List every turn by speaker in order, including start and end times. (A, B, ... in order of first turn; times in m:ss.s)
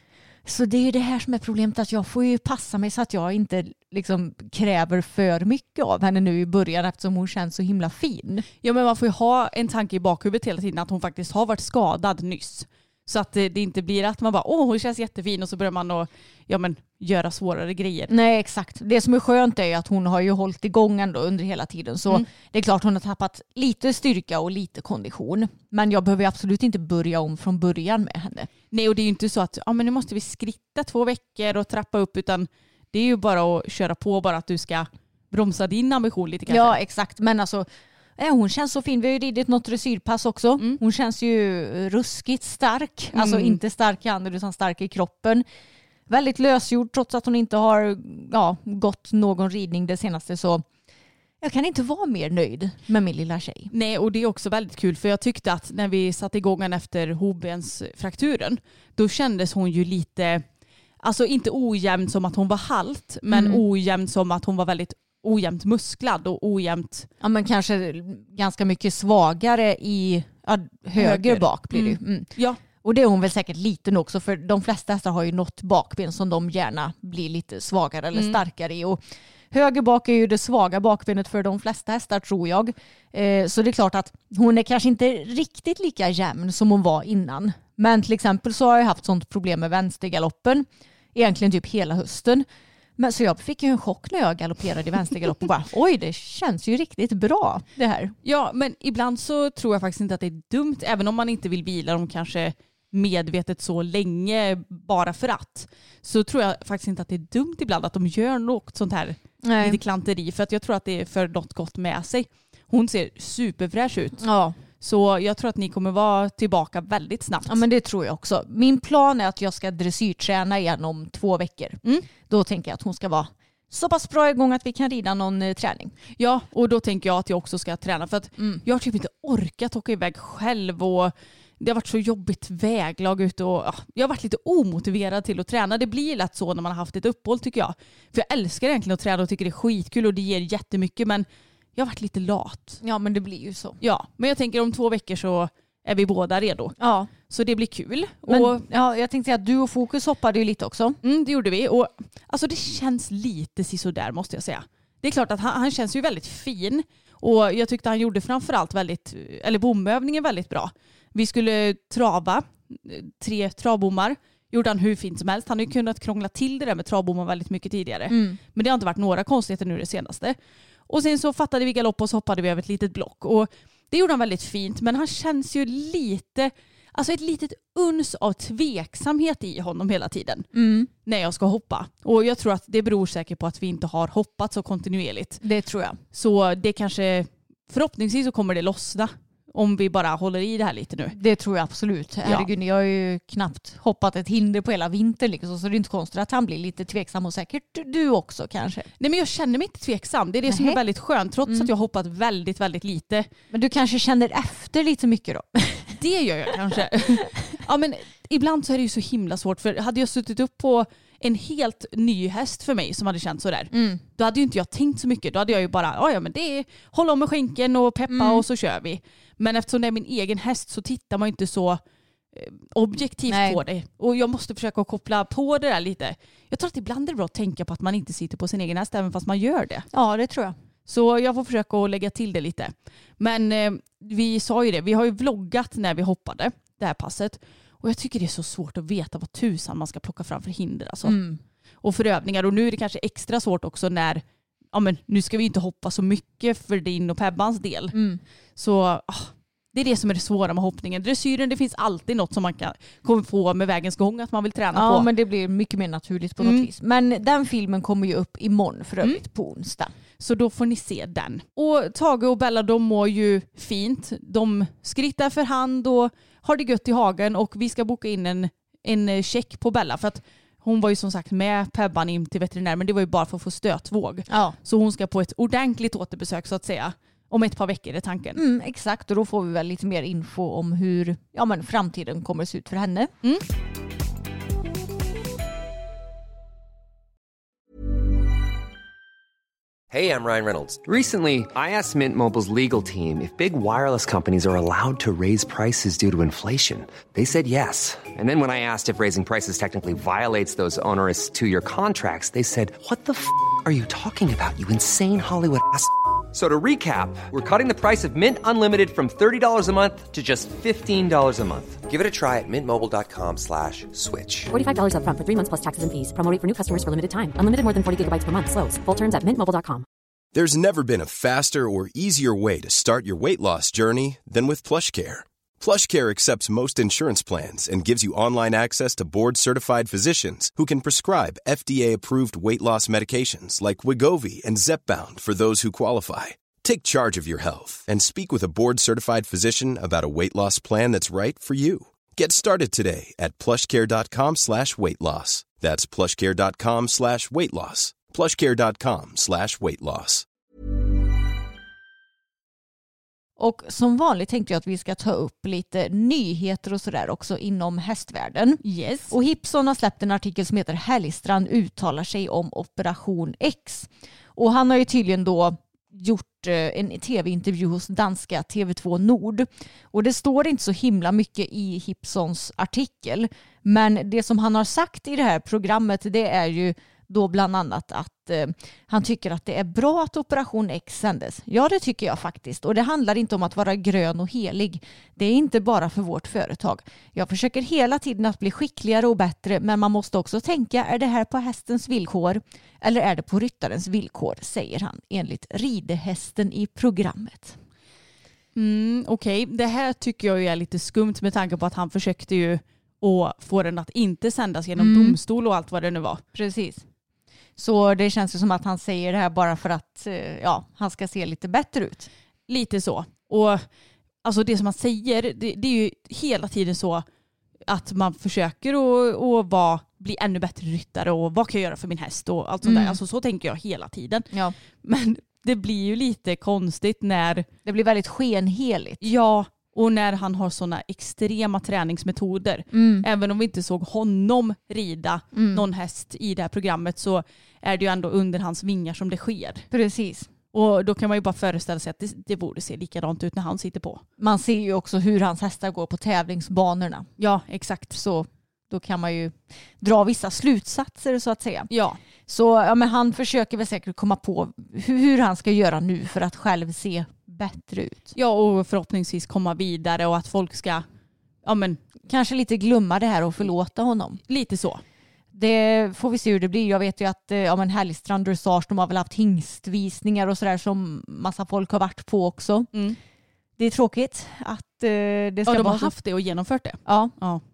0:00.4-0:08.5 A
0:08.6-0:18.1 B
0:18.1-0:28.5 A
0:28.7-0:36.8 B
0:36.5-0:37.7 A
0:38.2-0:45.4 A
0:43.1-0:43.6 B
0:46.1-0:50.7 A
0:51.4-0:53.7 A
0:53.7-1:00.4 B
1:01.0-1:07.1 B
1:03.3-1:03.6 A
1:07.2-1:19.0 A
1:11.0-1:12.6 B
1:18.1-1:18.4 B
1:19.5-1:32.5 A
1:33.0-1:38.2 A
1:38.2-1:54.2 B
1:49.4-1:49.8 A
1:54.2-1:54.6 A
1:54.8-1:57.6 B
1:57.4-2:05.9 A
2:06.2-2:22.8 B
2:08.4-2:08.6 A
2:22.8-2:23.8 A
2:23.8-2:26.8 B
2:26.8-2:27.1 A
2:27.3-2:28.6 B
2:28.3-2:31.0 A
2:31.0-2:50.4 B
2:48.1-2:48.4 A
2:50.9-3:00.5 B
3:00.5-3:00.9 A
3:01.0-3:05.4 B
3:05.4-3:06.0 A
3:06.1-3:11.2 B
3:11.1-3:18.9 A
3:19.0-3:23.3 B
3:20.5-3:20.8 A
3:23.5-3:26.0 A
3:26.0-3:41.8 B
3:26.7-3:27.6 A
3:33.7-3:34.0 A
3:38.1-3:38.4 A
3:42.3-3:49.9 B
3:43.3-3:43.6 A
3:49.9-3:50.6 A
3:50.9-4:01.2 B
4:01.0-4:01.4 A
4:01.8-4:08.0 B
4:07.9-4:08.2 A
4:08.6-4:15.1 B
4:14.7-4:19.9 A
4:16.4-4:16.7 B
4:20.2-4:38.4 B
4:34.3-4:34.6 A
4:38.4-4:43.1 A
4:49.9-5:14.5 C
5:14.5-5:19.8 D
5:20.3-5:50.3 E
5:53.4-6:37.6 A
5:58.6-5:59.2 B
6:38.6-6:46.2 B
6:44.8-6:45.2 A
6:46.3-6:46.8 A
6:47.6-6:52.1 A
6:52.5-6:53.6 B
6:54.2-6:57.0 B
6:57.7-7:04.3 B
7:02.6-7:03.0 A
7:04.8-7:07.5 B
7:07.6-7:09.0 A
7:09.0-7:19.7 B
7:12.7-7:13.1 A
7:15.3-7:15.6 A
7:19.7-7:20.3 A
7:20.5-7:24.0 B
7:24.2-7:27.1 A
7:27.2-7:28.0 B
7:27.9-7:31.7 A
7:31.7-7:32.0 B
7:32.3-7:38.2 A
7:38.2-7:40.8 B
7:41.4-7:41.8 B
7:42.0-7:44.2 A
7:44.3-7:44.8 B
7:45.3-7:52.7 A
7:53.6-7:55.9 A
7:55.5-7:57.4 B
7:56.9-7:57.1 A